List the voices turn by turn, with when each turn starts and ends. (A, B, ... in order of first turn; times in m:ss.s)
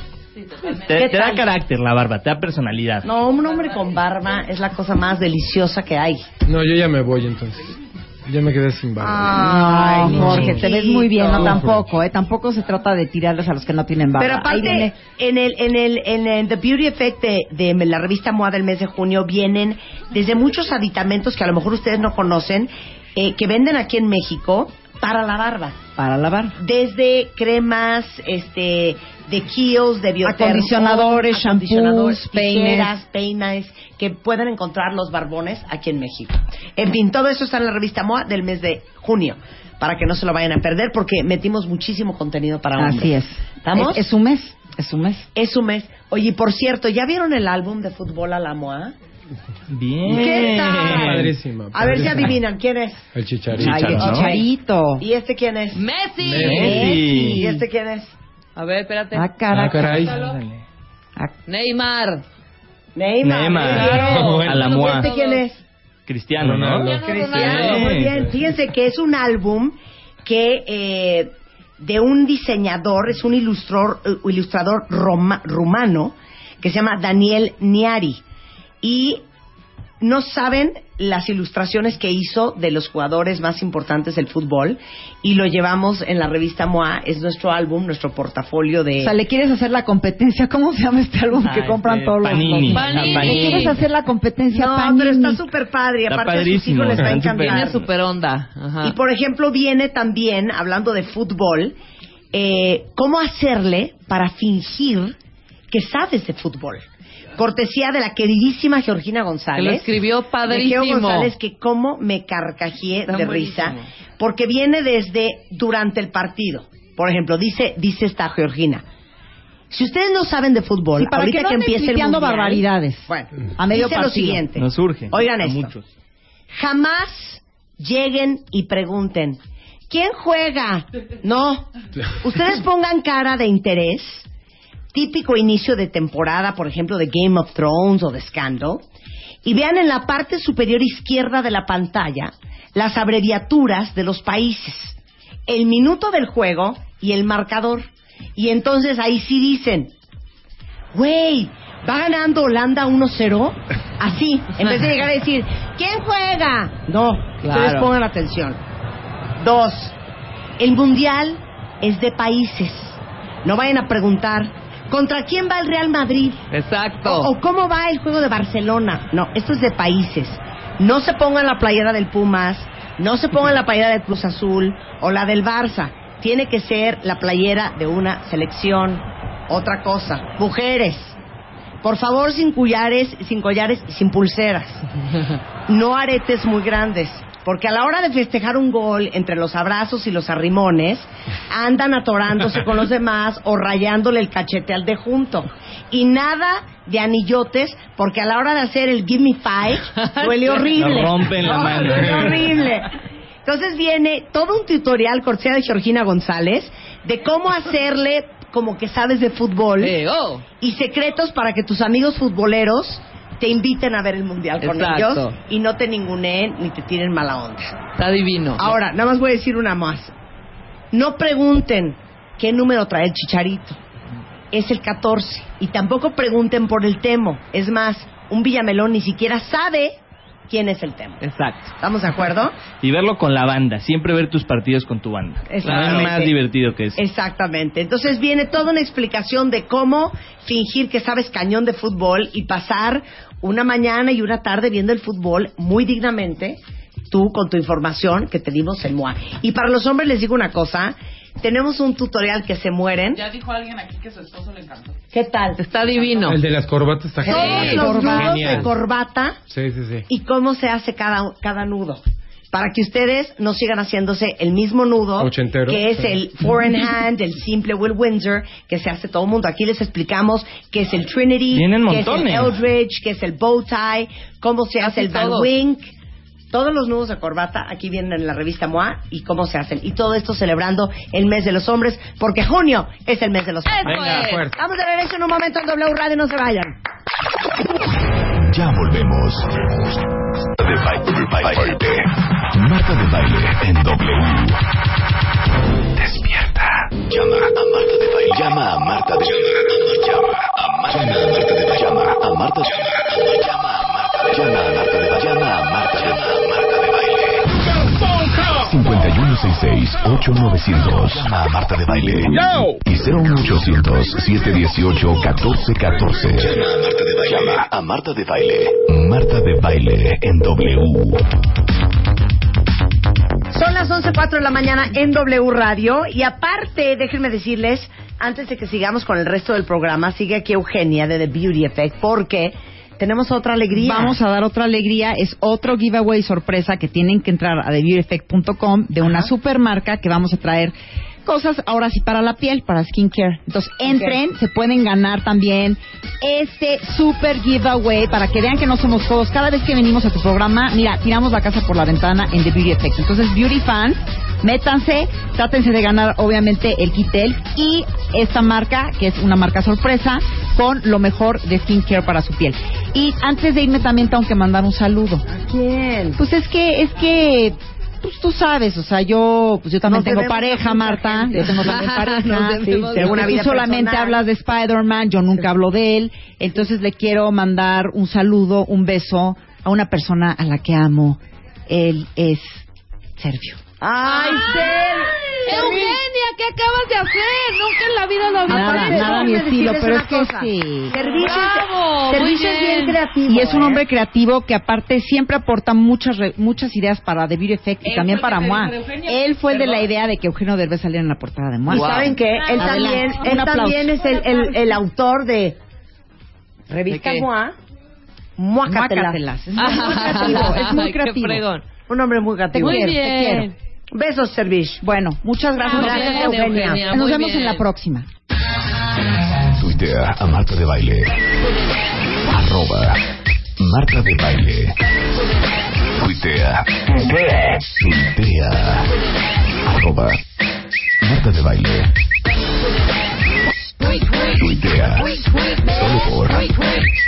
0:00.6-0:03.1 A
0:00.9-0:01.5 B
0:03.0-0:06.3 B
0:06.4-0:10.7 C
0:09.0-0:11.6 B
0:09.3-0:14.9 D
0:11.4-0:11.8 C
0:14.2-0:25.8 B
0:26.0-0:26.6 D
0:26.6-0:44.0 B
0:30.2-0:33.0 D
0:42.8-0:45.3 D
0:45.4-0:48.9 B
0:49.7-0:51.3 A
0:50.1-0:53.1 B
0:50.5-0:52.4 C
0:53.1-0:54.2 C
0:53.5-0:54.4 A
0:53.6-0:55.0 D
0:54.0-0:54.4 B
0:55.0-0:55.9 B
0:55.7-0:56.7 E
0:56.2-0:57.0 C
0:56.2-0:57.4 A
0:56.4-0:57.6 D
0:56.8-0:58.1 B
0:58.6-0:59.3 E
0:59.1-1:00.0 D
0:59.5-1:00.2 C
0:59.8-1:00.7 A
1:01.5-1:02.2 E
1:03.0-1:05.6 B
1:03.2-1:05.1 A
1:03.6-1:05.5 E
1:03.7-1:04.7 C
1:06.1-1:08.3 A
1:06.4-1:07.0 C
1:06.8-1:08.0 E
1:06.9-1:18.2 B
1:18.8-1:19.2 B
1:20.0-1:29.1 B
1:29.0-1:35.4 D
1:31.4-1:33.7 A
1:32.7-1:33.8 E
1:34.5-1:37.9 B
1:36.1-1:37.7 A
1:37.4-1:39.0 E
1:38.8-1:41.8 B
1:42.3-1:45.2 B
1:45.7-1:46.8 B
1:47.4-1:49.9 B
1:49.6-1:51.3 E
1:50.5-1:58.8 B
1:53.1-1:53.9 E
1:59.7-2:05.7 B
2:01.0-2:04.4 D
2:04.6-2:05.8 A
2:06.5-2:14.3 B
2:14.9-2:18.8 B
2:19.4-2:25.0 B
2:25.5-2:29.9 B
2:30.9-2:38.6 B
2:37.4-2:37.9 E
2:39.4-2:40.0 B
2:40.6-2:46.4 B
2:46.5-2:47.3 E
2:47.0-3:01.2 B
3:01.8-3:04.8 B
3:05.7-3:22.9 B
3:20.0-3:20.6 E
3:20.7-3:22.6 A
3:23.4-3:30.0 B
3:29.8-3:30.4 E
3:30.6-3:37.7 B
3:34.6-3:35.4 E
3:38.0-3:38.8 E
3:38.6-3:40.1 B
3:40.9-3:43.8 B
3:44.5-3:50.0 B
3:50.5-3:51.2 B
3:51.2-3:51.7 E
3:51.8-3:52.6 B
3:52.8-3:57.0 A
3:55.5-3:56.4 B
3:57.0-4:06.6 B
4:07.1-4:13.2 B
4:13.1-4:15.0 F
4:15.1-4:15.6 B
4:15.6-4:16.4 E
4:15.8-4:16.4 F
4:16.3-4:18.7 C
4:17.2-4:19.4 B
4:17.2-4:18.6 E
4:19.5-4:20.0 C
4:20.1-4:35.9 B
4:25.2-4:26.2 C
4:31.5-4:32.6 A
4:34.8-4:35.5 E
4:36.5-4:46.8 B
4:43.7-4:44.5 E
4:43.8-4:44.5 C
4:43.9-4:44.1 A
4:48.3-4:49.9 G
4:50.6-4:54.6 G
4:56.0-5:21.2 G
5:23.5-5:34.2 B
5:33.8-6:05.2 D
5:43.9-5:44.2 B
6:05.3-6:06.2 B
6:06.2-6:22.7 D
6:09.9-6:14.2 B
6:11.7-6:12.1 E
6:12.6-6:13.1 E
6:23.2-6:23.6 D
6:23.8-6:25.8 B
6:24.0-6:29.4 E
6:28.5-6:31.0 D
6:28.5-6:33.8 B
6:30.9-6:33.0 E
6:33.3-6:44.0 D
6:37.8-6:39.9 F
6:41.7-6:42.9 E
6:41.7-6:45.6 B
6:46.7-6:47.6 B
6:46.9-6:47.3 E
6:48.4-6:50.5 B
6:48.6-6:51.4 D
6:49.6-6:51.6 E
6:51.9-6:52.9 B
6:52.5-6:53.5 D
6:52.6-6:53.6 E
6:53.9-6:54.8 B
6:54.8-6:58.1 D
6:55.6-6:56.9 B
6:55.6-6:57.7 E
6:59.6-7:01.2 G
7:02.2-7:03.0 G
7:03.6-7:04.8 G
7:06.0-7:09.0 G
7:09.6-7:10.2 G
7:11.0-7:11.9 G
7:14.3-7:16.6 G